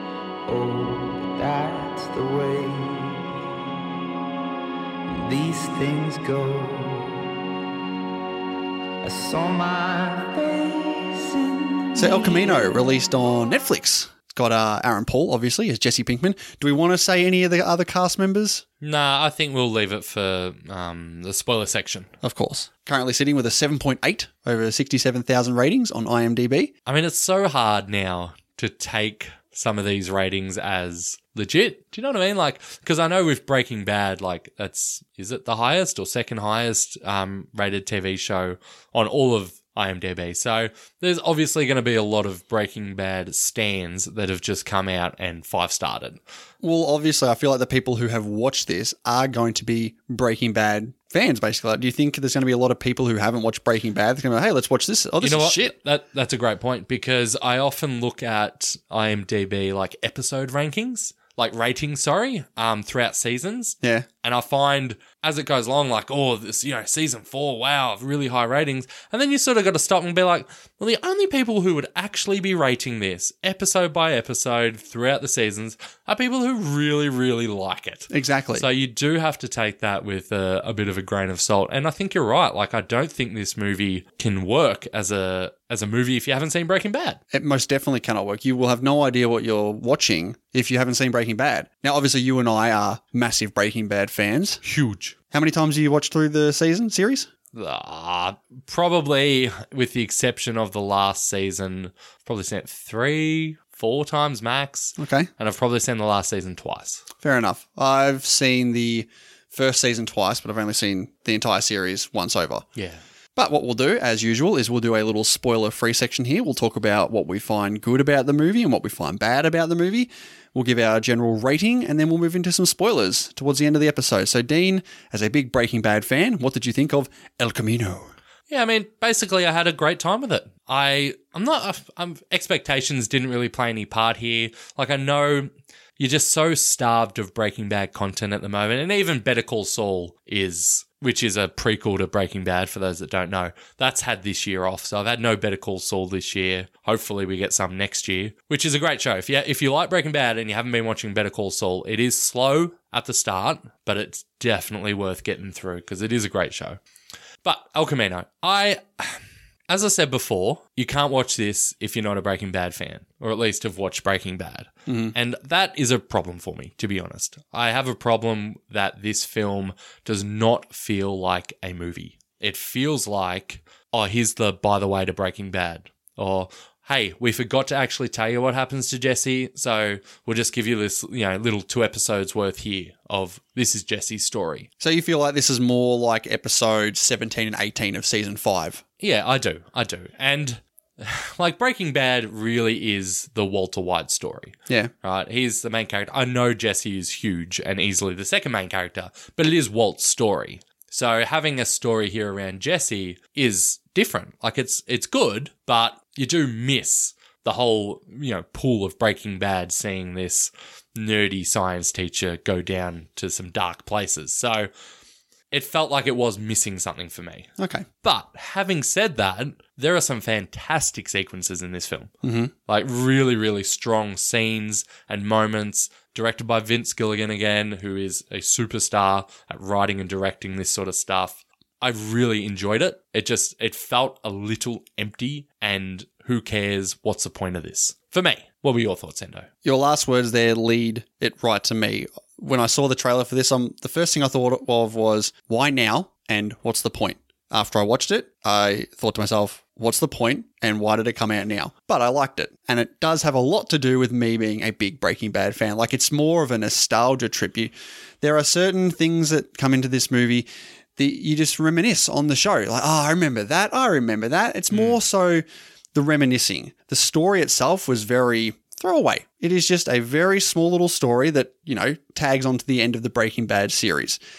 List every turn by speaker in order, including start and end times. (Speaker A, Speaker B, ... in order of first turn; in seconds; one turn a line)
Speaker A: 0.5-3.4
Speaker A: 5.1-7.3
Speaker A: 9.0-12.7
Speaker B: 12.0-18.6
Speaker C: 18.8-22.1
Speaker B: 22.2-26.7
Speaker C: 26.9-46.2
Speaker B: 46.6-55.7
Speaker C: 55.2-87.2
Speaker B: 78.1-78.7
Speaker B: 87.3-94.6
Speaker C: 94.6-95.2
Speaker B: 95.3-97.3
Speaker C: 97.5-107.0
Speaker B: 105.0-105.3
Speaker B: 107.2-112.7
Speaker B: 113.4-128.1
Speaker C: 128.5-156.8
Speaker C: 157.4-184.7
Speaker B: 164.9-165.2
Speaker B: 184.8-188.8
Speaker C: 189.0-214.7
Speaker C: 215.5-222.1
Speaker B: 217.6-217.9
Speaker B: 222.2-222.5
Speaker C: 222.7-239.5
Speaker B: 239.6-274.2
Speaker C: 264.7-265.0